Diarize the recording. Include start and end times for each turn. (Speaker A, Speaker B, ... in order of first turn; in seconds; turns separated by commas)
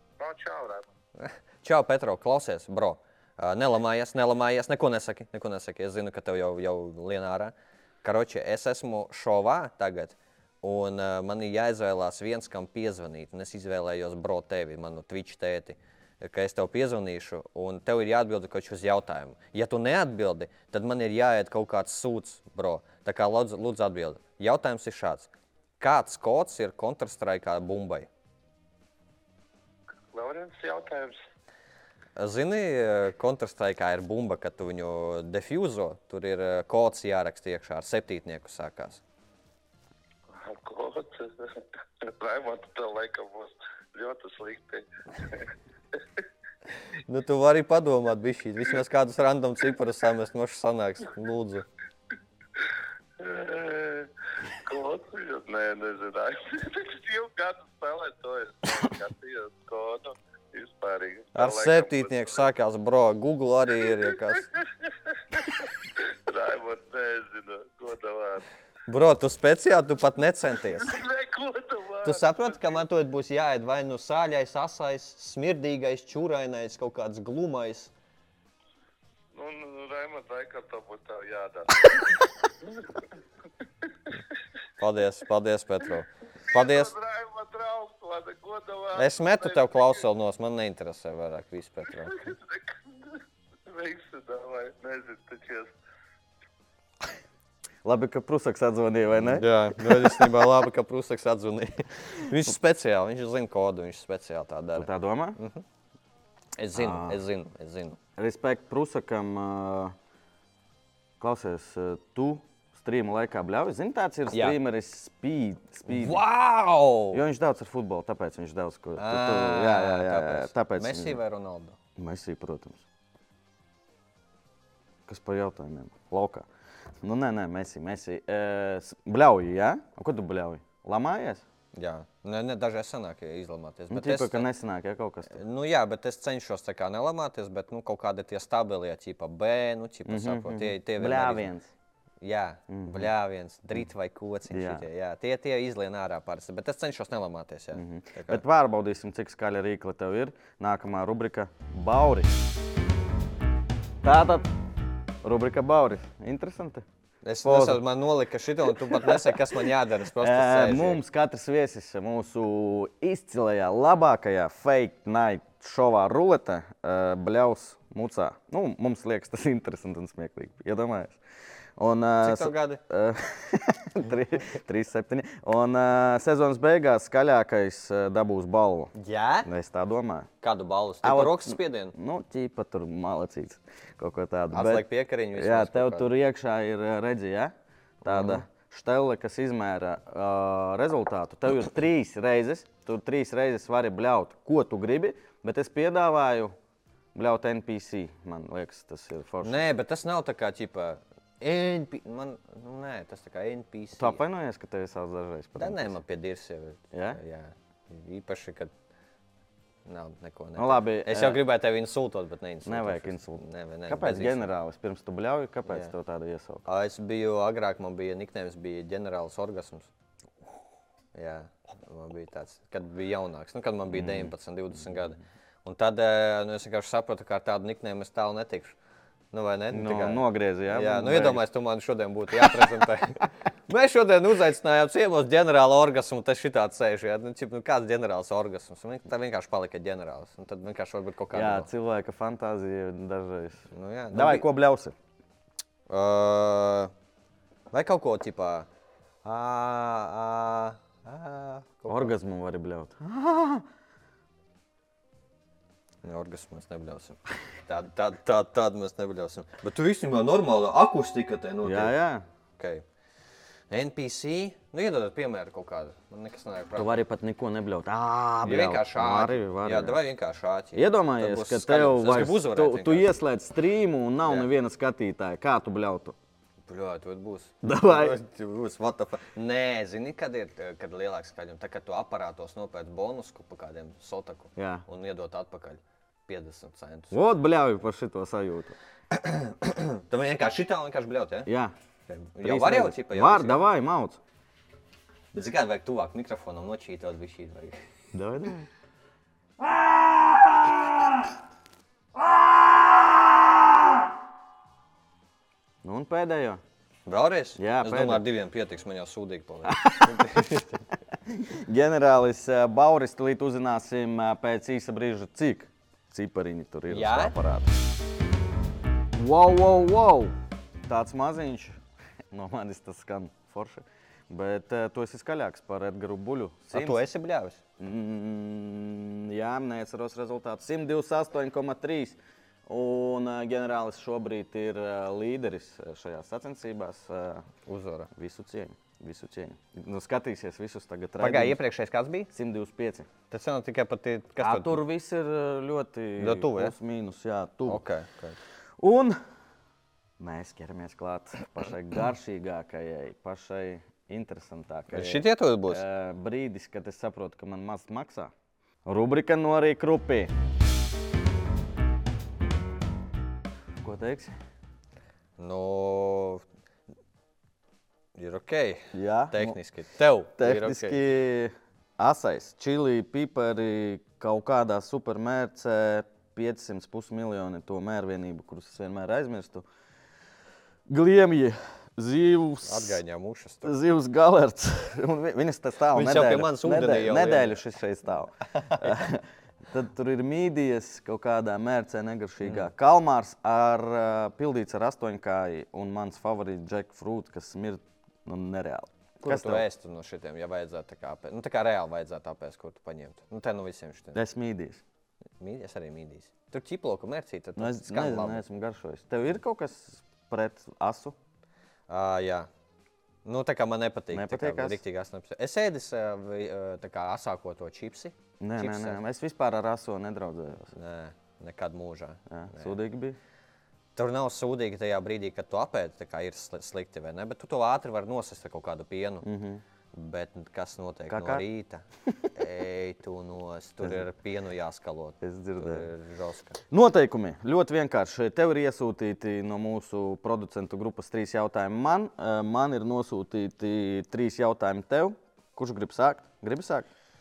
Speaker A: 0.2-0.8, Speaker B: 1.2-25.3, Speaker B: 25.8-28.1, Speaker A: 30.1-31.2, Speaker B: 32.1-39.0, Speaker A: 40.3-41.5, Speaker A: 42.1-45.5, Speaker B: 47.0-51.6, Speaker A: 53.2-54.1, Speaker A: 54.6-62.4, Speaker B: 61.3-64.5, Speaker A: 65.3-68.4, Speaker B: 68.9-71.0, Speaker A: 70.8-72.8, Speaker B: 72.0-77.9, Speaker A: 79.3-83.0, Speaker B: 84.8-86.9, Speaker A: 86.5-89.9, Speaker B: 88.9-92.2, Speaker A: 92.2-93.1, Speaker A: 93.7-95.7, Speaker C: 97.8-100.3, Speaker B: 99.2-105.6, Speaker C: 104.7-105.4, Speaker B: 106.6-108.0, Speaker C: 106.7-107.2, Speaker C: 108.2-109.9, Speaker C: 111.2-116.2, Speaker B: 114.3-114.6, Speaker B: 115.9-117.2, Speaker C: 117.1-121.2, Speaker B: 119.0-121.8, Speaker C: 122.0-122.8, Speaker C: 125.1-126.5, Speaker C: 127.0-131.4, Speaker B: 131.7-134.5, Speaker C: 133.9-135.4, Speaker B: 135.3-141.5, Speaker C: 140.0-141.7, Speaker B: 142.2-148.4, Speaker C: 142.7-143.1, Speaker C: 144.5-144.8, Speaker C: 147.7-152.4, Speaker C: 154.0-154.5, Speaker C: 155.2-156.8, Speaker B: 157.2-161.0, Speaker C: 157.4-157.8, Speaker C: 158.8-159.4, Speaker C: 160.2-171.2, Speaker C: 171.8-178.9, Speaker B: 172.2-172.8, Speaker B: 178.9-179.5, Speaker C: 179.4-180.3, Speaker B: 180.4-181.9, Speaker C: 181.0-196.5, Speaker B: 184.5-186.1, Speaker B: 188.0-188.4, Speaker C: 197.1-199.6, Speaker B: 199.4-204.2, Speaker C: 204.0-206.0, Speaker B: 205.6-208.7, Speaker C: 206.9-207.2, Speaker B: 209.8-214.4, Speaker C: 210.6-211.4, Speaker C: 212.6-216.6, Speaker B: 215.7-215.9, Speaker B: 216.6-219.9, Speaker B: 221.1-228.8, Speaker C: 223.9-224.3, Speaker B: 229.3-241.7, Speaker C: 229.7-231.4, Speaker C: 232.3-232.8, Speaker C: 241.3-244.9, Speaker B: 243.7-244.4, Speaker B: 245.9-246.9, Speaker B: 247.7-248.7, Speaker B: 249.2-252.1, Speaker C: 251.9-253.6, Speaker B: 256.0-261.9, Speaker C: 261.6-262.2, Speaker B: 262.6-262.8, Speaker B: 263.7-266.9, Speaker C: 266.8-270.0, Speaker B: 268.4-273.1, Speaker C: 270.7-276.1, Speaker B: 276.7-287.1, Speaker C: 277.6-278.2, Speaker C: 284.6-284.8, Speaker C: 287.1-288.8, Speaker B: 289.1-291.5, Speaker C: 291.4-291.7, Speaker B: 292.1-293.6, Speaker C: 292.4-294.2, Speaker B: 295.3-297.8, Speaker C: 298.1-298.7, Speaker C: 299.6-301.1, Speaker C: 302.2-303.2, Speaker C: 305.8-306.6, Speaker B: 307.1-310.8, Speaker C: 307.6-308.2, Speaker C: 309.6-310.5, Speaker C: 311.2-317.7, Speaker B: 316.9-317.3, Speaker C: 319.1-321.8, Speaker C: 322.3-327.0, Speaker B: 326.7-327.6, Speaker C: 327.8-337.4, Speaker B: 337.6-338.1, Speaker C: 338.1-341.6, Speaker B: 341.2-342.3, Speaker C: 342.3-343.1, Speaker B: 343.3-344.8, Speaker C: 344.4-347.8, Speaker B: 346.2-346.7, Speaker B: 347.6-348.4, Speaker C: 348.8-349.2, Speaker C: 350.2-358.3, Speaker B: 354.9-355.8, Speaker C: 358.8-360.3, Speaker C: 363.8-364.3, Speaker B: 365.4-366.4, Speaker B: 368.1-371.0, Speaker C: 368.9-369.6, Speaker C: 370.4-379.6, Speaker C: 380.9-383.0, Speaker B: 382.6-383.8, Speaker C: 383.6-399.6, Speaker B: 385.9-387.6, Speaker B: 399.2-404.2, Speaker C: 404.1-404.8, Speaker B: 405.4-408.4, Speaker C: 407.6-411.1, Speaker B: 411.9-412.5, Speaker B: 413.2-419.0, Speaker C: 414.1-414.8, Speaker C: 418.4-420.7, Speaker B: 420.7-422.7, Speaker C: 422.3-423.2, Speaker B: 423.9-429.2, Speaker C: 429.2-429.6, Speaker B: 429.9-436.6, Speaker C: 431.1-431.4, Speaker C: 435.2-435.9, Speaker C: 436.7-446.9